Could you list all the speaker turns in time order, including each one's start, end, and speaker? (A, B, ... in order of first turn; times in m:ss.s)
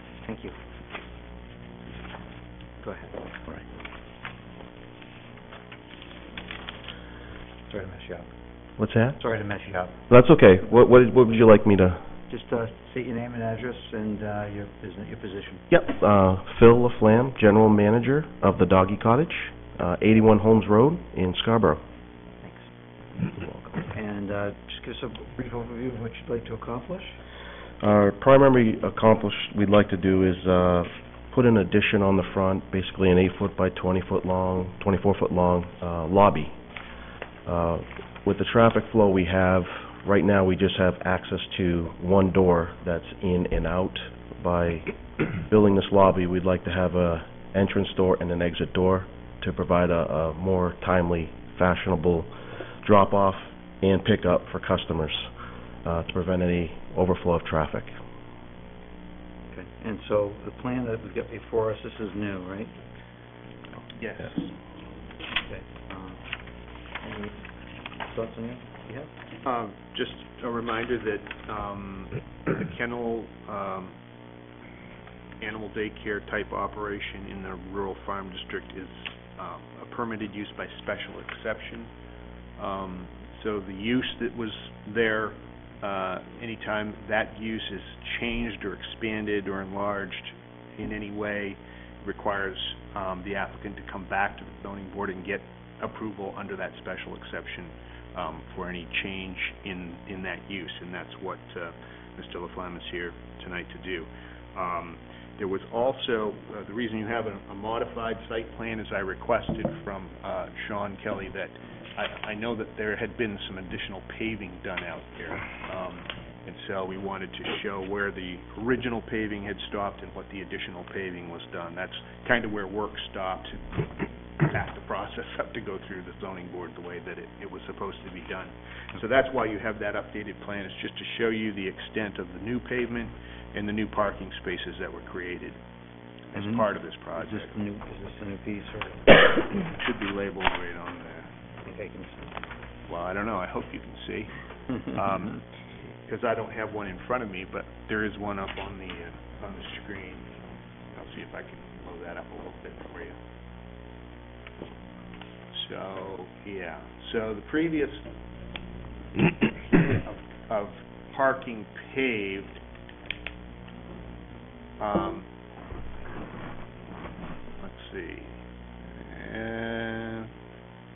0:00.2-0:00.6 A
0:02.8-0:03.2 A
0:07.7-0:08.3 A
0:08.8-0:09.2 B
0:09.2-0:10.0 A
0:10.1-0:12.0 B
0:12.3-0:15.6 A
0:15.7-0:21.8 B
0:23.7-0:27.2 A
0:27.8-0:36.5 B
0:37.4-0:44.9 B
0:45.4-0:52.3 B
0:52.8-0:55.3 B
0:55.8-0:57.9 B
0:59.5-1:02.7 A
1:03.9-1:04.5 C
1:05.4-1:06.2 A
1:07.0-1:07.4 A
1:08.0-1:09.1 A
1:09.4-1:14.0 C
1:15.4-1:21.9 C
1:22.6-2:03.8 C
2:04.4-2:15.6 C
2:16.3-2:17.6 C
2:16.3-2:19.2 A
2:19.5-2:21.3 C
2:21.6-2:22.3 A
2:22.9-2:25.4 C
2:26.0-2:30.3 C
2:30.9-2:33.2 C
2:35.5-2:38.1 C
2:39.6-2:42.6 C
2:44.8-2:45.2 C
2:47.6-2:48.3 C
2:48.9-2:50.3 C